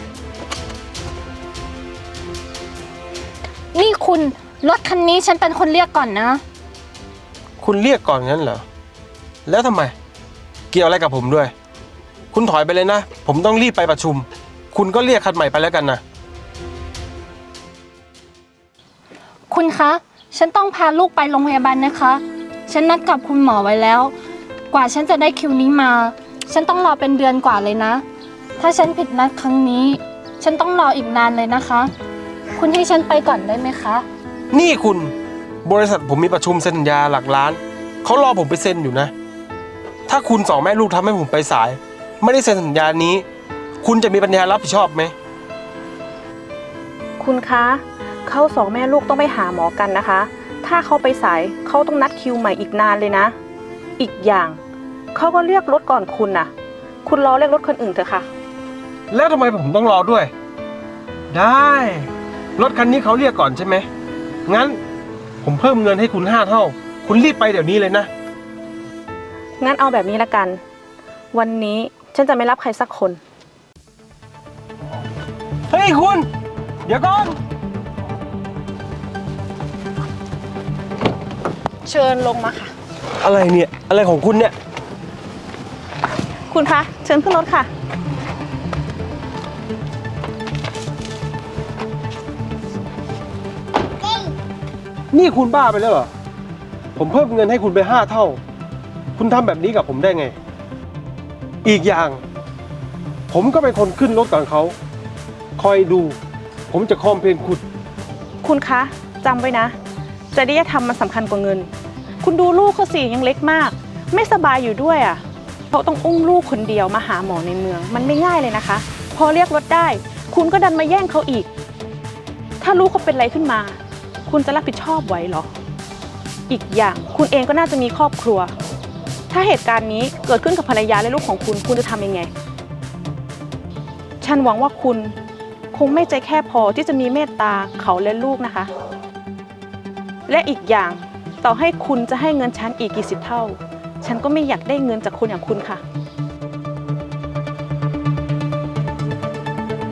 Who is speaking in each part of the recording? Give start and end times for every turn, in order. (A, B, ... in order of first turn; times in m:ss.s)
0:03.7-0:06.4 A
0:07.6-0:08.6 B
0:09.4-0:09.9 B
0:10.7-0:11.5 B
0:12.3-0:16.0 B
0:19.5-0:24.1 A
0:24.7-0:28.0 A
0:28.6-0:31.9 A
0:32.6-0:34.0 A
0:34.5-0:35.1 B
0:35.6-0:39.1 B
0:40.1-0:43.2 B
0:43.8-0:45.1 B
0:47.2-0:53.3 C
0:54.0-0:54.6 C
0:55.1-0:56.5 C
0:57.0-0:58.3 C
0:59.1-1:00.3 B
1:01.3-1:03.9 B
1:04.5-1:04.8 B
1:05.4-1:08.1 B
1:09.6-1:10.6 C
1:11.3-1:13.2 C
1:15.7-1:16.3 B
1:16.8-1:17.4 B
1:21.8-1:22.7 C
1:23.2-1:24.5 B
1:26.5-1:27.7 C
1:35.1-1:36.1 B
1:37.0-1:38.4 B
1:39.2-1:40.3 B
1:41.6-1:42.2 B
1:43.3-1:44.8 B
1:45.6-1:46.2 B
1:46.7-1:47.6 B
1:48.4-1:49.7 C
1:50.3-1:51.7 C
1:52.2-2:01.5 C
2:02.6-2:05.5 C
2:06.5-2:08.5 C
2:09.3-2:12.3 C
2:14.2-2:15.2 C
2:15.7-2:18.7 C
2:20.3-2:25.8 C